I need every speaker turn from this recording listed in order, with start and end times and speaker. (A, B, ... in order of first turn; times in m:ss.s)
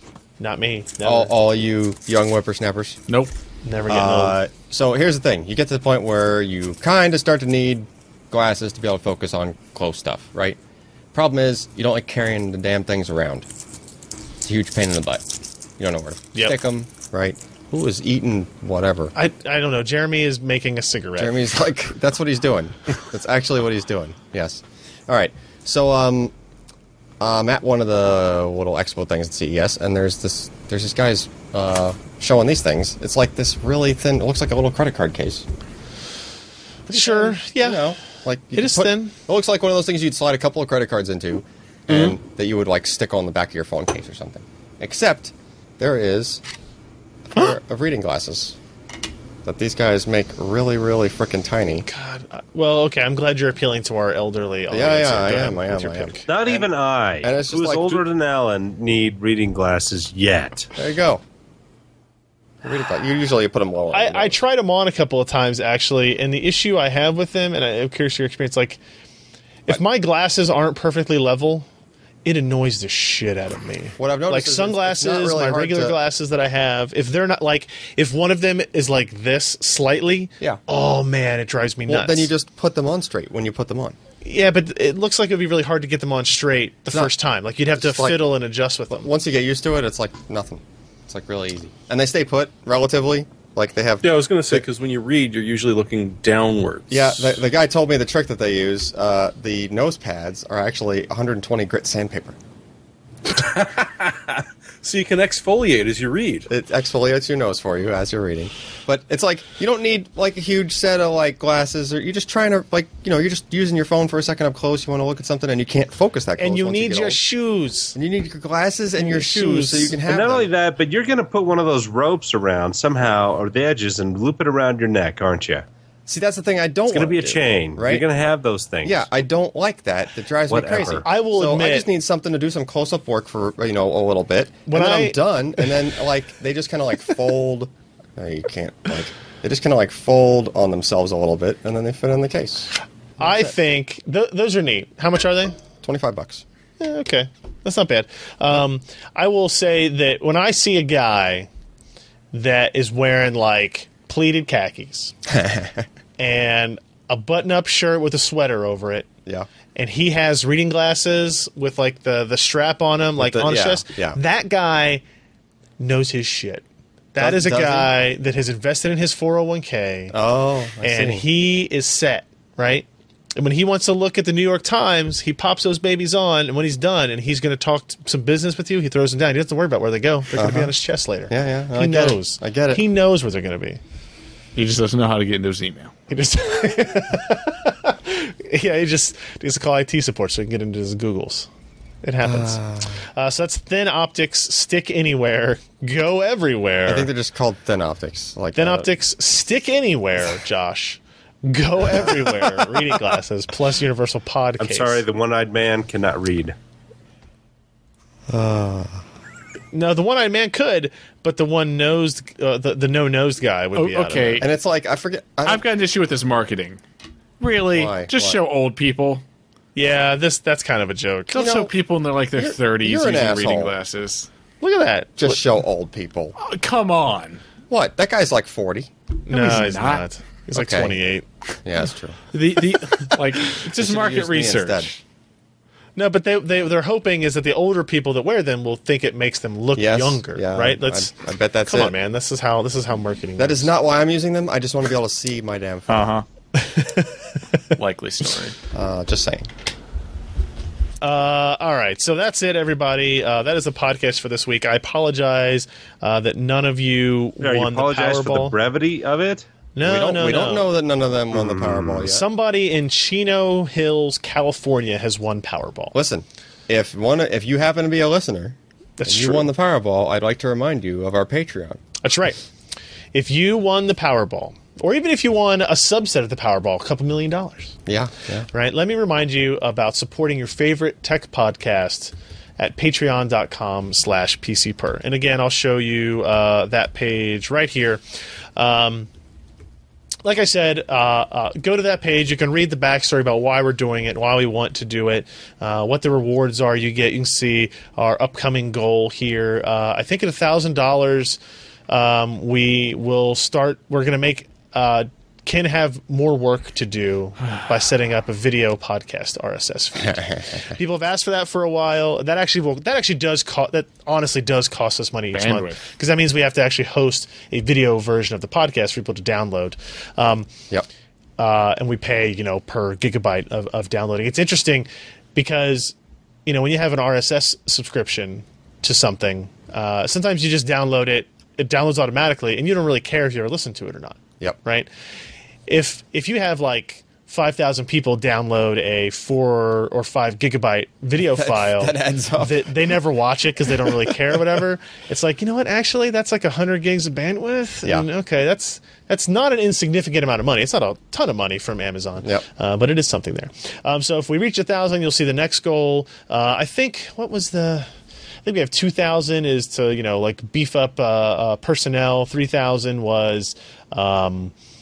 0:00.4-0:01.3 A
0:01.0-0:03.0 B
0:03.1-0:03.3 C
0:03.6-0:04.4 A
0:03.9-0:10.6 B
0:11.1-0:13.4 B
0:14.4-0:15.2 B
0:15.8-0:19.1 B
0:19.1-0:21.3 A
0:21.2-0:26.3 B
0:27.2-0:35.4 B
0:36.9-0:38.0 A
0:36.9-0:46.4 B
0:38.5-0:39.1 A
0:47.3-0:48.6 B
0:49.4-0:51.8 B
0:51.8-0:56.2 A
0:54.7-0:58.0 B
0:56.3-1:00.7 D
1:00.7-1:01.2 B
1:02.6-1:04.4 B
1:03.9-1:08.8 A
1:09.6-1:11.7 A
1:12.2-1:22.3 A
1:14.0-1:16.0 B
1:21.8-1:24.0 B
1:24.2-1:29.1 A
1:27.7-1:28.2 B
1:28.9-1:34.6 B
1:34.0-1:37.4 E
1:36.9-1:42.4 B
1:43.3-1:46.5 E
1:46.5-1:57.2 B
1:56.4-1:58.0 A
1:57.9-2:00.5 B
1:59.0-2:00.0 A
2:00.0-2:05.6 D
2:06.1-2:08.0 B
2:06.9-2:09.0 D
2:08.8-2:23.5 B
2:10.5-2:11.0 D
2:11.0-2:11.9 A
2:14.6-2:15.2 A
2:23.2-2:25.6 A
2:25.8-2:26.4 B
2:26.8-2:31.5 A
2:32.3-2:35.1 A
2:35.3-2:35.8 B
2:36.2-2:39.1 A
2:39.7-2:45.0 A
2:43.2-2:44.2 B
2:45.8-2:50.1 A
2:47.2-2:47.9 B
2:50.1-2:51.2 B
2:50.8-3:03.8 A
3:00.3-3:00.7 B
3:01.3-3:02.8 B
3:04.6-3:05.9 C
3:06.1-3:11.5 A
3:12.0-3:17.1 A
3:12.2-3:13.0 B
3:16.8-3:18.9 B
3:18.5-3:25.0 A
3:24.6-3:26.5 D
3:28.3-3:29.0 B
3:29.7-3:34.4 A
3:33.8-3:34.5 C
3:34.4-3:35.6 B
3:35.4-3:36.8 C
3:37.4-3:39.2 C
3:37.7-3:38.4 B
3:39.7-3:41.5 A
3:41.3-3:44.3 C
3:41.4-3:41.7 B
3:42.3-3:43.7 B
3:44.6-3:45.4 A
3:45.2-3:46.3 B
3:46.4-3:47.4 C
3:47.7-3:48.9 B
3:49.3-3:51.2 A
3:49.3-3:50.1 C
3:50.5-3:51.0 B
3:51.6-3:52.2 B
3:52.3-3:55.0 C
3:52.4-3:53.1 A
3:53.7-3:54.9 B
3:56.0-4:03.7 A
3:59.7-4:01.9 B
4:03.4-4:06.2 B
4:05.9-4:06.2 C
4:06.5-4:07.2 A
4:07.8-4:08.6 C
4:08.7-4:09.5 B
4:11.0-4:18.5 A
4:17.4-4:19.4 D
4:19.8-4:20.7 A
4:19.8-4:22.2 B
4:21.3-4:22.1 D
4:22.0-4:25.9 A
4:25.9-4:31.8 B
4:29.0-4:29.5 A
4:32.0-4:32.4 A
4:33.1-4:37.8 A
4:37.8-4:38.5 B
4:38.5-4:48.0 A
4:48.6-4:49.1 A
4:50.2-5:20.5 A
5:10.0-5:10.4 B
5:15.3-5:15.8 C
5:21.4-5:25.9 A
5:26.4-5:34.9 A
5:35.7-5:57.9 A
5:41.3-5:42.7 B
5:43.8-5:44.1 B
5:58.4-6:04.5 A